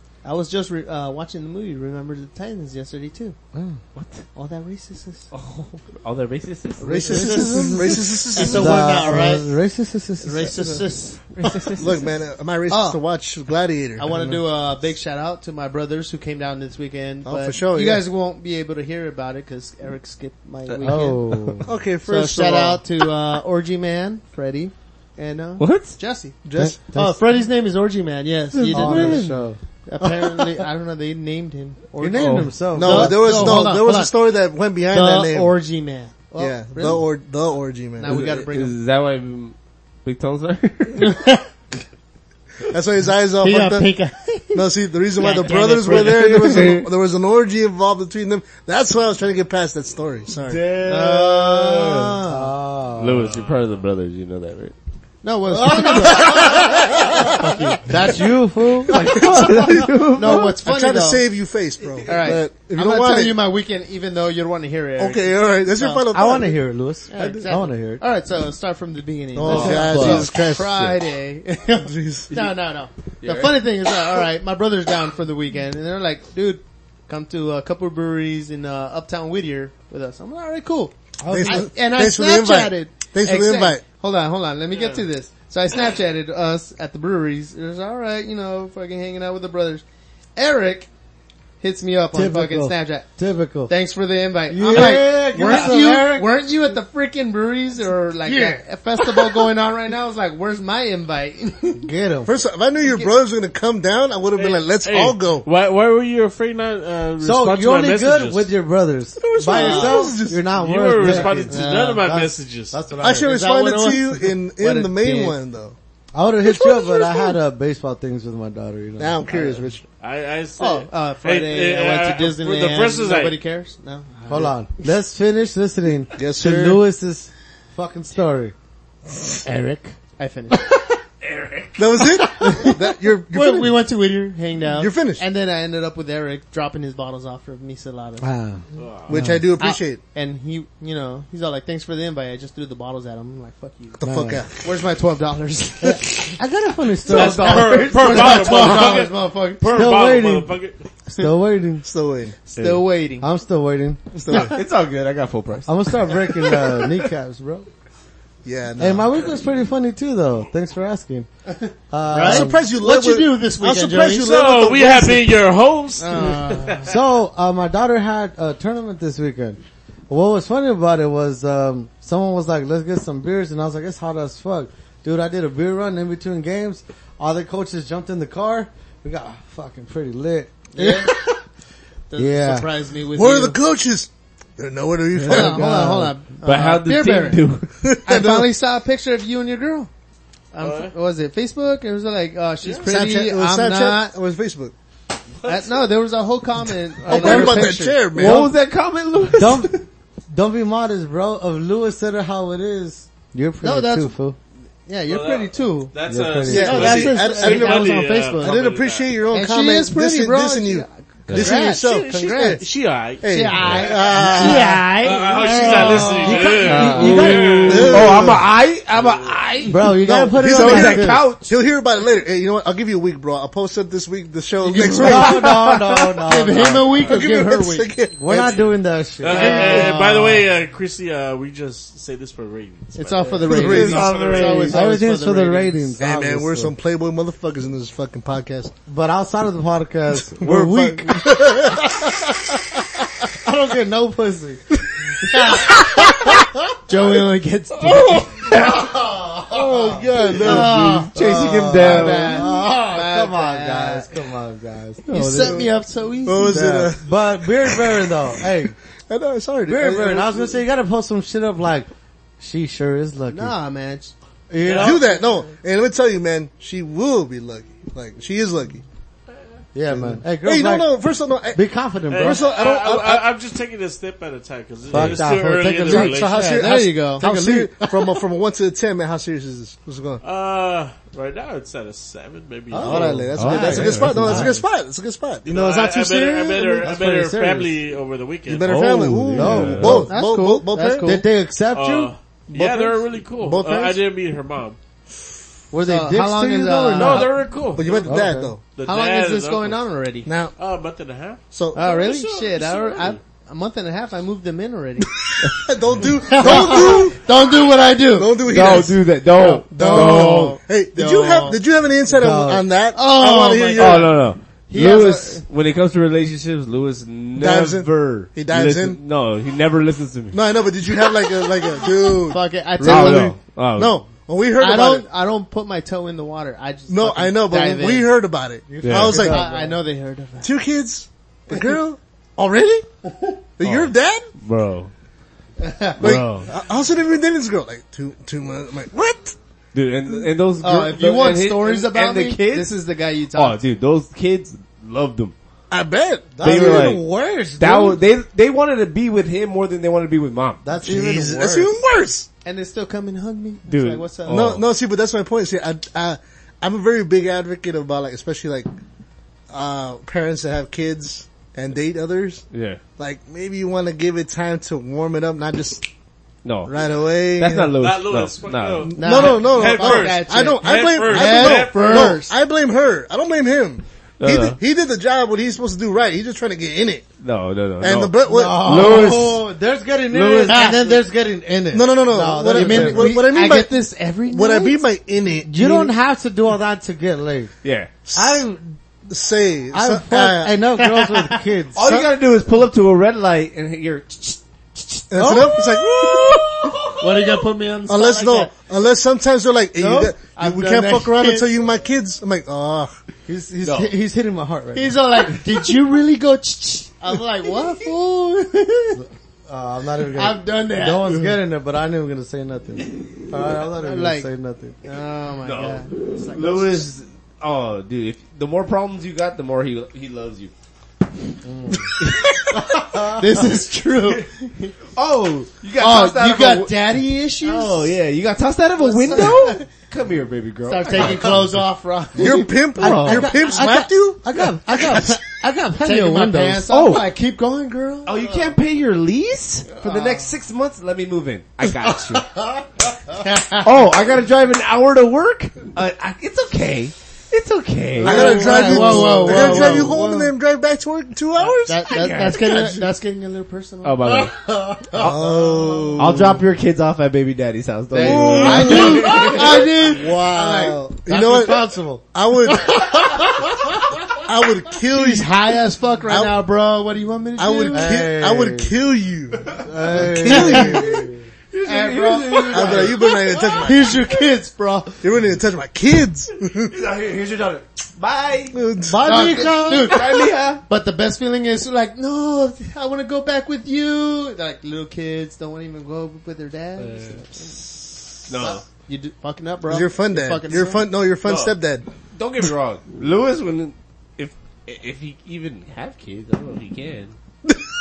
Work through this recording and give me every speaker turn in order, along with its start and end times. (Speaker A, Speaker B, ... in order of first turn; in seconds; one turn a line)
Speaker A: 0.2-3.4
Speaker B: 3.5-3.8
Speaker C: 4.0-4.2
Speaker A: 4.3-5.3
Speaker C: 5.3-7.8
Speaker D: 6.8-9.3
Speaker A: 7.1-9.5
Speaker B: 7.2-7.5
Speaker B: 8.4-10.6
Speaker A: 10.2-11.8
Speaker C: 11.4-11.8
Speaker D: 11.8-14.4
Speaker A: 12.7-13.0
Speaker A: 14.0-21.3
Speaker D: 17.2-18.0
Speaker C: 20.7-21.5
Speaker B: 20.8-21.7
Speaker D: 21.6-22.8
Speaker A: 22.1-26.4
Speaker C: 25.6-26.0
Speaker D: 26.4-26.8
Speaker B: 26.6-27.2
Speaker A: 26.9-29.4
Speaker C: 28.6-29.3
Speaker B: 28.7-29.6
Speaker A: 29.9-34.1
Speaker B: 32.0-33.4
Speaker D: 32.7-35.5
Speaker A: 34.9-37.0
Speaker D: 36.4-38.2
Speaker A: 38.0-38.8
Speaker C: 38.0-41.2
Speaker A: 41.0-41.4
Speaker D: 42.7-43.9
Speaker A: 43.4-46.9
Speaker D: 44.5-50.8
Speaker C: 45.8-46.8
Speaker C: 50.5-52.2
Speaker A: 50.8-52.5
Speaker D: 51.4-51.7
Speaker B: 52.2-53.3
Speaker C: 53.0-54.8
Speaker A: 55.2-56.6
Speaker B: 55.5-60.1
Speaker D: 56.0-57.2
Speaker A: 57.9-58.2
Speaker D: 58.9-63.4
Speaker C: 58.9-60.5
Speaker A: 60.1-61.2
Speaker A: 62.1-66.0
Speaker D: 65.0-66.6
Speaker B: 66.1-68.0
Speaker A: 67.1-89.8
Speaker D: 67.2-67.5
Speaker D: 69.3-71.0
Speaker B: 69.5-70.2
Speaker C: 69.5-70.3
Speaker D: 71.8-72.3
Speaker C: 73.2-73.6
Speaker B: 81.2-81.7
Speaker D: 81.3-83.8
Speaker E: 84.7-85.0
Speaker A: 90.4-90.9
Speaker A: 91.6-93.1
Speaker B: 92.1-93.7
Speaker A: 93.7-101.9
Speaker B: 94.5-96.3
Speaker B: 98.3-98.6
Speaker B: 101.8-102.3
Speaker D: 102.3-105.5
Speaker A: 102.8-103.1
Speaker E: 104.4-108.5
Speaker B: 107.2-113.3
Speaker D: 109.2-110.5
Speaker A: 109.5-110.1
Speaker E: 110.5-112.8
Speaker A: 111.0-112.1
Speaker D: 113.0-115.8
Speaker A: 113.2-115.4
Speaker B: 116.1-119.3
Speaker D: 116.5-117.4
Speaker D: 119.0-119.8
Speaker E: 120.0-123.4
Speaker A: 120.6-124.6
Speaker B: 124.3-128.5
Speaker D: 126.2-126.8
Speaker A: 129.6-130.7
Speaker C: 131.2-132.1
Speaker D: 131.8-133.8
Speaker A: 132.4-132.8
Speaker A: 133.3-138.3
Speaker D: 134.7-135.2
Speaker B: 138.2-139.4
Speaker E: 138.8-139.2
Speaker D: 139.1-140.0
Speaker A: 139.6-144.0
Speaker D: 144.0-144.6
Speaker B: 144.0-144.4
Speaker A: 144.6-146.3
Speaker B: 145.8-148.9
Speaker A: 147.1-149.6
Speaker E: 147.1-150.8
Speaker B: 149.7-150.6
Speaker B: 151.1-151.9
Speaker D: 151.8-152.4
Speaker A: 152.4-153.3
Speaker C: 152.6-152.8
Speaker B: 153.2-154.3
Speaker D: 154.2-154.6
Speaker C: 154.4-156.7
Speaker B: 155.7-157.7
Speaker D: 158.4-159.2
Speaker B: 158.8-161.3
Speaker A: 161.5-164.3
Speaker B: 161.9-162.6
Speaker D: 162.1-165.4
Speaker E: 164.2-166.8
Speaker A: 166.0-166.9
Speaker B: 166.8-181.4
Speaker A: 180.8-181.2
Speaker A: 182.1-183.6
Speaker B: 182.2-182.7
Speaker D: 183.2-185.7
Speaker B: 185.2-186.2
Speaker A: 185.3-187.5
Speaker C: 186.4-187.7
Speaker D: 187.8-188.5
Speaker A: 188.0-189.9
Speaker A: 190.5-194.1
Speaker E: 190.6-190.9
Speaker D: 192.8-194.7
Speaker A: 195.4-198.2
Speaker B: 197.1-198.5
Speaker D: 197.1-198.5
Speaker C: 197.2-197.6
Speaker C: 198.1-199.8
Speaker B: 199.3-204.4
Speaker A: 203.6-204.1
Speaker A: 204.9-205.9
Speaker E: 205.1-209.1
Speaker B: 206.1-207.2
Speaker A: 206.5-208.6
Speaker D: 206.5-212.7
Speaker A: 209.3-212.7
Speaker C: 211.3-211.6
Speaker E: 211.9-214.2
Speaker D: 213.2-214.9
Speaker A: 213.2-217.3
Speaker E: 215.0-218.2
Speaker B: 215.6-218.3
Speaker C: 216.6-221.5
Speaker D: 217.6-218.4
Speaker E: 218.9-219.4
Speaker B: 219.7-221.3
Speaker D: 220.0-225.8
Speaker A: 224.7-225.7
Speaker B: 224.7-227.1
Speaker A: 226.2-227.9
Speaker D: 226.9-228.7
Speaker B: 228.2-230.3
Speaker E: 229.2-234.8
Speaker A: 229.3-230.4
Speaker A: 232.9-235.9
Speaker D: 233.5-234.4
Speaker B: 233.6-236.8
Speaker C: 233.7-234.8
Speaker D: 236.0-238.7
Speaker B: 238.9-242.3
Speaker D: 240.3-242.3
Speaker B: 243.3-244.6
Speaker B: 245.2-246.5
Speaker A: 245.3-246.3
Speaker A: 246.9-248.4
Speaker B: 248.5-255.7
Speaker D: 249.5-251.8
Speaker A: 250.4-251.2
Speaker C: 250.4-252.4
Speaker A: 251.8-254.1
Speaker A: 255.1-256.7
Speaker C: 255.2-255.4
Speaker D: 255.4-255.7
Speaker D: 256.2-258.1
Speaker B: 256.4-258.8
Speaker D: 259.1-260.6
Speaker B: 259.7-261.9
Speaker B: 262.4-263.6
Speaker A: 263.3-264.1
Speaker B: 264.5-265.1
Speaker E: 264.6-265.0
Speaker D: 264.6-268.8
Speaker A: 264.7-265.2
Speaker B: 269.7-271.0
Speaker D: 269.9-273.3
Speaker B: 271.5-272.5
Speaker E: 272.1-276.4
Speaker B: 274.9-276.6
Speaker D: 274.9-275.3
Speaker D: 275.9-280.2
Speaker A: 276.0-277.2
Speaker B: 277.2-278.1
Speaker E: 280.2-283.3
Speaker B: 282.7-284.6
Speaker D: 282.8-286.9
Speaker C: 283.4-284.6
Speaker E: 285.4-288.7
Speaker B: 286.8-287.8
Speaker D: 288.5-291.2
Speaker C: 288.6-290.1
Speaker B: 289.3-290.1
Speaker A: 290.1-291.2
Speaker B: 291.0-292.1
Speaker E: 291.7-294.8
Speaker D: 292.5-294.0
Speaker B: 295.7-297.4
Speaker A: 295.8-297.3
Speaker E: 296.9-298.2
Speaker D: 297.8-298.6
Speaker B: 298.1-298.5
Speaker E: 298.8-299.8
Speaker A: 298.9-300.3
Speaker D: 300.3-300.5
Speaker E: 300.6-303.2
Speaker D: 301.5-301.9
Speaker A: 301.7-305.1
Speaker D: 305.6-307.2
Speaker A: 306.3-308.4
Speaker D: 308.1-309.1
Speaker C: 308.4-310.6
Speaker A: 309.4-311.6
Speaker D: 309.7-315.1
Speaker B: 312.1-312.7
Speaker A: 312.9-315.4
Speaker C: 313.8-320.4
Speaker D: 317.4-319.0
Speaker D: 320.3-325.1
Speaker A: 322.3-323.3
Speaker C: 322.8-324.1
Speaker A: 324.6-328.1
Speaker D: 326.9-329.4
Speaker B: 328.7-329.8
Speaker C: 328.8-329.3
Speaker A: 329.1-330.5
Speaker D: 330.4-332.9
Speaker D: 333.6-334.3
Speaker C: 333.6-334.9
Speaker A: 335.6-336.2
Speaker C: 336.0-336.5
Speaker D: 336.0-339.4
Speaker C: 339.7-342.8
Speaker A: 340.6-343.6
Speaker C: 343.3-345.3
Speaker D: 345.7-347.1
Speaker B: 346.4-348.0
Speaker C: 346.4-347.0
Speaker C: 347.6-350.6
Speaker B: 350.6-351.8
Speaker D: 350.8-352.3
Speaker A: 352.4-354.5
Speaker C: 353.7-354.6
Speaker D: 354.3-358.7
Speaker D: 359.5-362.4
Speaker C: 362.5-362.8
Speaker D: 363.0-365.9
Speaker C: 366.4-366.7
Speaker D: 366.7-367.7
Speaker C: 367.3-369.0
Speaker E: 367.8-372.2
Speaker D: 368.9-377.1
Speaker A: 369.0-372.3
Speaker C: 374.2-374.6
Speaker C: 377.2-379.4
Speaker D: 377.8-379.2
Speaker B: 378.2-383.2
Speaker C: 380.1-380.7
Speaker A: 380.5-381.0
Speaker D: 381.7-385.9
Speaker A: 382.5-384.8
Speaker B: 385.4-387.5
Speaker C: 387.6-388.0
Speaker D: 388.1-388.5
Speaker B: 388.1-388.8
Speaker D: 389.1-390.6
Speaker B: 389.7-392.0
Speaker A: 390.8-391.4
Speaker C: 391.8-397.0
Speaker D: 395.1-396.7
Speaker B: 395.2-395.6
Speaker A: 397.0-398.5
Speaker D: 397.9-402.9
Speaker A: 399.8-401.5
Speaker B: 403.3-405.0
Speaker C: 403.6-403.9
Speaker A: 404.8-409.0
Speaker B: 409.0-414.8
Speaker A: 410.1-411.3
Speaker A: 413.8-414.3
Speaker A: 414.8-416.9
Speaker C: 415.4-420.5
Speaker B: 421.4-421.9
Speaker B: 422.8-423.2
Speaker A: 423.0-424.7
Speaker C: 425.0-426.9
Speaker A: 425.8-427.9
Speaker C: 427.4-431.6
Speaker A: 428.8-429.7
Speaker A: 430.7-433.7
Speaker D: 432.2-435.1
Speaker B: 432.8-436.6
Speaker A: 434.9-435.2
Speaker A: 435.7-438.5
Speaker C: 436.7-437.1
Speaker C: 438.1-442.4
Speaker A: 439.8-440.3
Speaker A: 443.2-443.6
Speaker C: 443.5-449.9
Speaker D: 448.0-451.9
Speaker A: 448.0-450.3
Speaker B: 448.8-449.0
Speaker A: 451.7-454.2
Speaker C: 451.9-452.8
Speaker C: 453.8-459.7
Speaker B: 454.5-455.1
Speaker D: 454.9-456.4
Speaker A: 457.9-461.8
Speaker D: 458.0-462.9
Speaker B: 458.5-459.0
Speaker B: 461.1-462.0
Speaker A: 462.6-463.2
Speaker D: 464.1-465.3
Speaker A: 464.9-468.0
Speaker D: 466.1-466.4
Speaker D: 467.4-471.1
Speaker B: 467.7-468.7
Speaker B: 469.6-471.2
Speaker A: 470.3-470.9
Speaker C: 471.5-473.7
Speaker A: 471.6-475.0
Speaker D: 472.5-474.0
Speaker D: 475.0-476.8
Speaker C: 476.7-478.6
Speaker D: 478.5-479.4
Speaker B: 478.8-480.1
Speaker A: 479.0-487.5
Speaker C: 479.6-480.6
Speaker C: 486.8-487.2
Speaker C: 488.3-488.6
Speaker A: 488.4-490.8
Speaker D: 489.7-491.9
Speaker C: 491.2-491.5
Speaker C: 492.1-497.1